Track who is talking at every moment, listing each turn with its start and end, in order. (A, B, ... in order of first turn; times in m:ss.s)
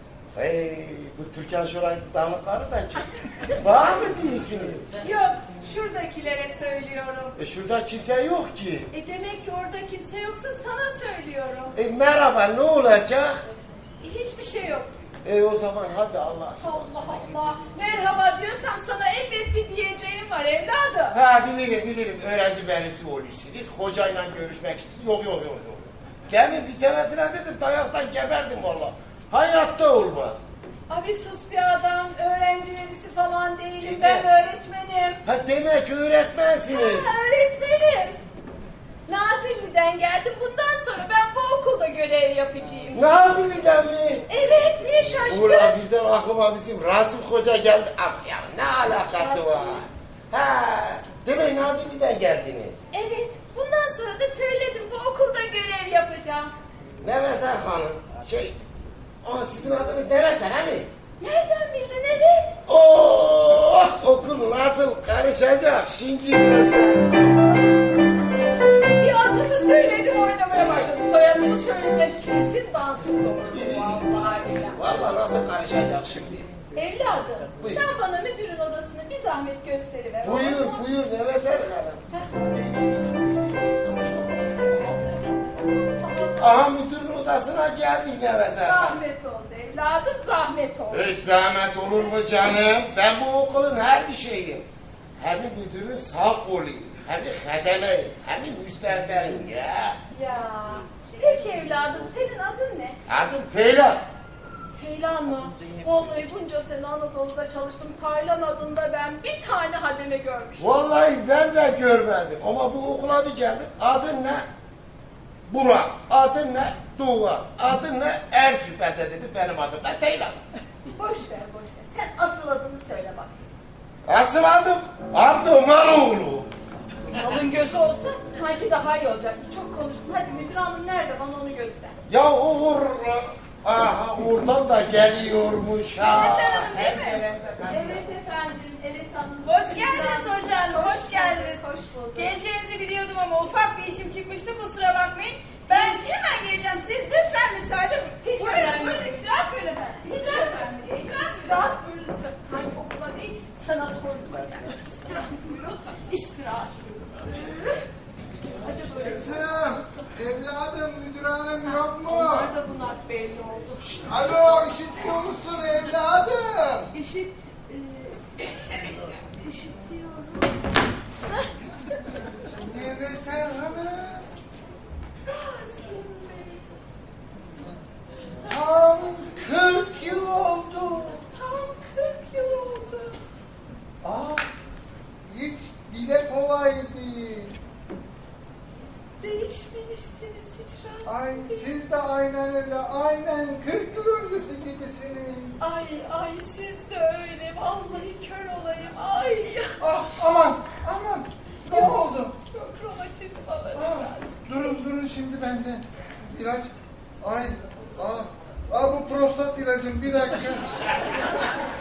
0:00.3-0:04.9 A
0:05.0-0:07.4 B
0:07.4-0:08.9 A
0:08.9-0:11.8 B
0:11.8-0:13.4 A
0:14.0-0:14.9 B
0:15.2-0:16.8 A
0:16.6-0:21.2 B
0:21.1-0:30.4 A
0:30.9-0:35.2 B
0:33.8-0:34.3 A
0:35.2-0:37.1 A
0:36.7-0:38.2 B
0:39.1-0:43.4 B
0:42.9-0:44.3 A
0:44.3-0:45.8 B
0:45.2-0:52.8 A
0:49.0-0:49.8 B
0:52.9-0:56.5 B
0:57.0-0:58.6 A
0:59.2-1:00.9 A
1:01.2-1:02.6 B
1:02.7-1:07.6 A
1:09.0-1:14.8 B
1:13.5-1:16.5 A
1:16.8-1:20.8 B
1:20.2-1:23.2 A
1:22.1-1:22.3 B
1:24.4-1:26.7 B
1:26.4-1:29.0 A
1:28.6-1:31.1 B
1:30.9-1:34.6 A
1:35.2-1:40.0 A
1:40.1-1:43.0 B
1:43.1-1:44.0 A
1:44.8-1:50.8 B
1:50.6-1:54.4 A
1:55.5-2:00.4 A
2:01.0-2:03.3 B
2:04.1-2:06.5 A
2:07.1-2:12.0 B
2:12.1-2:18.0 A
2:16.0-2:17.2 C
2:17.7-2:22.4 B
2:19.4-2:21.6 C
2:22.2-2:31.5 C
2:25.7-2:26.0 B
2:28.2-2:29.2 B
2:30.0-2:37.8 B
2:38.6-2:40.1 B
2:39.0-2:42.6 D
2:41.7-2:44.0 B
2:43.9-2:46.9 D
2:46.9-2:48.4 B
2:49.3-2:50.5 B
2:52.6-2:54.3 D
2:55.3-2:56.7 B
2:58.4-3:01.2 D
3:01.1-3:03.2 B
3:04.0-3:04.5 D
3:05.3-3:07.6 D
3:09.2-3:11.7 B
3:11.0-3:15.6 D
3:15.6-3:19.8 B
3:19.8-3:22.4 D
3:21.7-3:24.8 B
3:23.8-3:31.3 D